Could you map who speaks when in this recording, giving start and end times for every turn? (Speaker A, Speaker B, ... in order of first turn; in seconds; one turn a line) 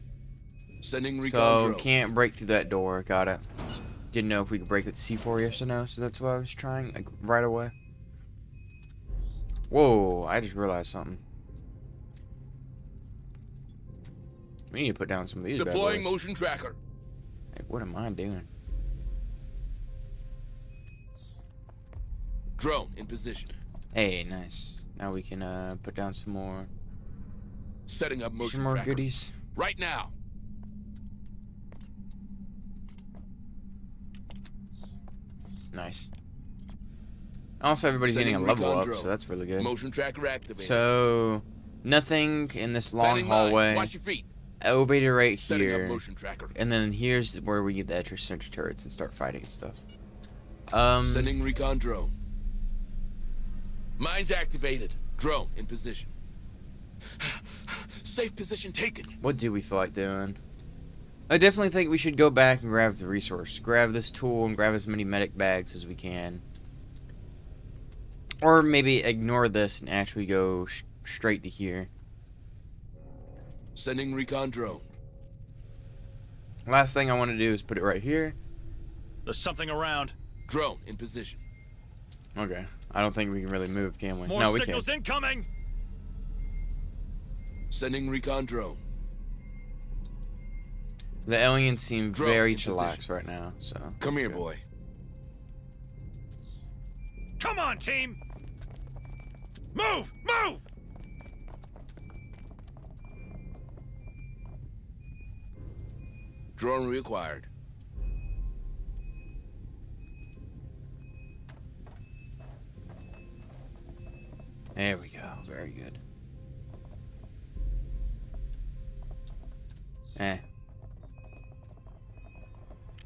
Speaker A: 0.8-1.9
Speaker B: 1.2-3.5
Speaker B: 4.1-7.7
Speaker B: 9.7-11.2
Speaker B: 14.7-16.1
Speaker A: 15.6-16.8
Speaker B: 17.5-18.5
Speaker A: 22.6-23.5
Speaker B: 23.9-26.7
Speaker A: 27.9-30.1
Speaker B: 28.4-29.4
Speaker B: 35.7-36.1
Speaker B: 37.6-39.7
Speaker A: 38.0-40.9
Speaker B: 40.6-43.9
Speaker A: 43.0-44.3
Speaker B: 44.6-46.0
Speaker A: 45.4-46.5
Speaker B: 46.5-49.8
Speaker B: 50.7-51.4
Speaker A: 51.0-52.1
Speaker A: 54.0-56.1
Speaker A: 57.2-59.1
Speaker B: 59.2-60.4
Speaker B: 61.3-66.4
Speaker B: 68.4-71.9
Speaker A: 73.8-74.9
Speaker B: 76.7-78.4
Speaker C: 79.2-80.1
Speaker A: 80.5-81.4
Speaker B: 82.3-84.9
Speaker C: 84.3-85.5
Speaker A: 87.7-88.8
Speaker B: 91.2-94.4
Speaker A: 92.1-93.0
Speaker A: 94.0-94.6
Speaker C: 97.4-98.2
Speaker C: 99.7-100.6
Speaker A: 106.6-107.5
Speaker B: 114.8-116.0
Speaker B: 120.2-120.4